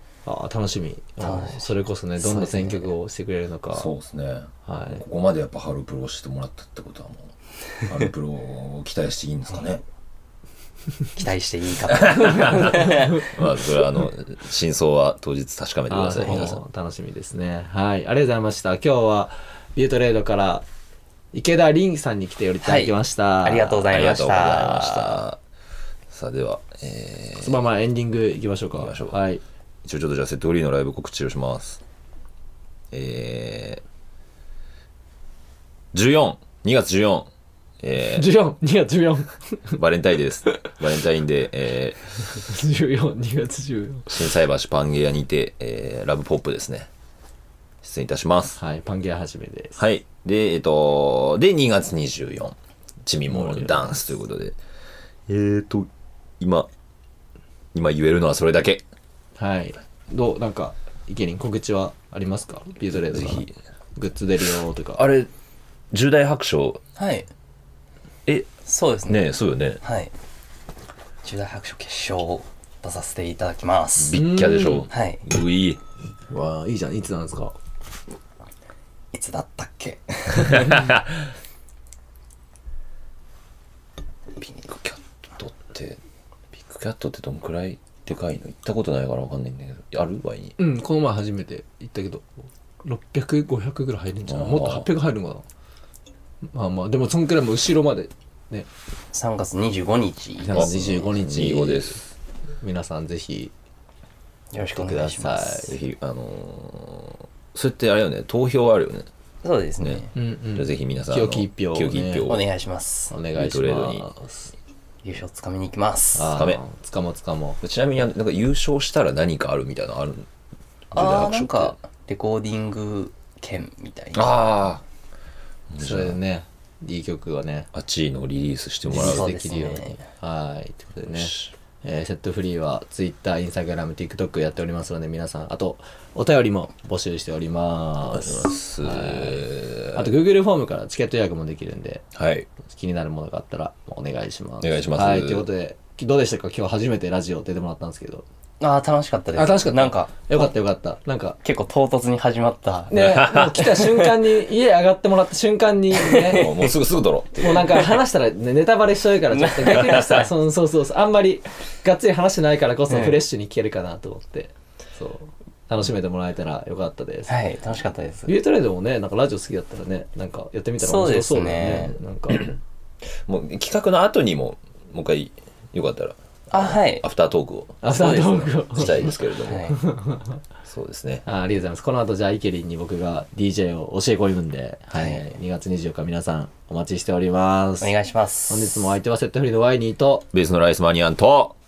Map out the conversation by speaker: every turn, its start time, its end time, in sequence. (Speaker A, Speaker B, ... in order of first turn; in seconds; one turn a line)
Speaker A: 0.2-3.9
Speaker B: 1.2-2.9
Speaker C: 3.7-7.3
Speaker A: 4.7-5.0
Speaker C: 7.8-9.8
Speaker B: 11.2-13.3
Speaker C: 11.9-16.6
Speaker A: 12.3-13.3
Speaker A: 15.9-20.6
Speaker A: 21.3-23.9
Speaker B: 22.6-25.2
Speaker C: 23.9-25.4
Speaker C: 26.1-27.6
Speaker A: 27.4-29.4
Speaker C: 28.8-29.2
Speaker C: 29.8-31.8
Speaker C: 32.9-33.8
Speaker C: 35.9-37.3
Speaker C: 37.8-38.3
Speaker A: 38.0-39.8
Speaker C: 39.7-42.1
Speaker A: 42.3-44.2
Speaker C: 44.1-46.9
Speaker C: 47.8-48.6
Speaker A: 48.6-49.8
Speaker C: 49.8-54.6
Speaker A: 53.3-53.9
Speaker C: 55.3-56.7
Speaker C: 57.7-58.8
Speaker A: 59.4-63.4
Speaker C: 63.0-63.5
Speaker A: 64.0-65.0
Speaker C: 65.0-65.3
Speaker C: 65.9-66.8
Speaker B: 67.0-67.3
Speaker B: 68.7-69.2
Speaker C: 69.1-69.8
Speaker B: 69.8-70.1
Speaker B: 71.2-74.2
Speaker C: 74.0-75.8
Speaker A: 74.1-74.9
Speaker B: 74.9-75.2
Speaker A: 76.3-77.5
Speaker B: 79.1-80.9
Speaker C: 80.4-81.3
Speaker C: 84.6-86.0
Speaker C: 86.5-90.5
Speaker A: 90.6-92.2
Speaker A: 92.8-95.4
Speaker C: 94.3-94.8
Speaker A: 96.5-98.7
Speaker B: 99.1-100.7
Speaker A: 100.4-102.0
Speaker C: 100.5-102.0
Speaker A: 102.6-103.5
Speaker B: 104.5-105.7
Speaker A: 104.8-105.7
Speaker C: 104.9-109.1
Speaker B: 109.4-110.1
Speaker C: 109.8-112.4
Speaker A: 110.1-112.3
Speaker B: 112.2-113.1
Speaker A: 113.1-114.5
Speaker C: 113.3-114.0
Speaker B: 115.0-116.4
Speaker A: 116.1-117.6
Speaker C: 116.3-116.6
Speaker C: 117.6-120.3
Speaker C: 120.9-121.8
Speaker B: 120.9-124.3
Speaker C: 124.1-124.8
Speaker C: 125.7-126.2
Speaker A: 125.8-127.7
Speaker C: 127.7-129.3
Speaker A: 128.9-142.0
Speaker B: 128.9-130.0
Speaker C: 131.1-131.5
Speaker C: 138.1-140.1
Speaker C: 142.1-142.5
Speaker A: 142.7-148.2
Speaker C: 144.6-145.4
Speaker B: 148.6-150.5
Speaker A: 149.3-151.4
Speaker B: 151.4-153.0
Speaker A: 152.9-156.5
Speaker C: 152.9-153.8
Speaker B: 155.9-156.7
Speaker C: 156.3-158.0
Speaker A: 157.4-167.4
Speaker B: 159.3-160.3
Speaker B: 162.9-163.2
Speaker B: 167.3-168.3
Speaker A: 168.3-172.6
Speaker B: 170.8-171.9
Speaker C: 173.2-179.8
Speaker B: 176.5-177.0
Speaker A: 177.8-179.1
Speaker B: 177.9-179.8
Speaker A: 179.7-180.4
Speaker C: 180.7-181.2
Speaker A: 181.2-187.9
Speaker B: 184.9-185.2
Speaker B: 187.8-188.8
Speaker A: 188.5-190.3
Speaker C: 190.3-191.5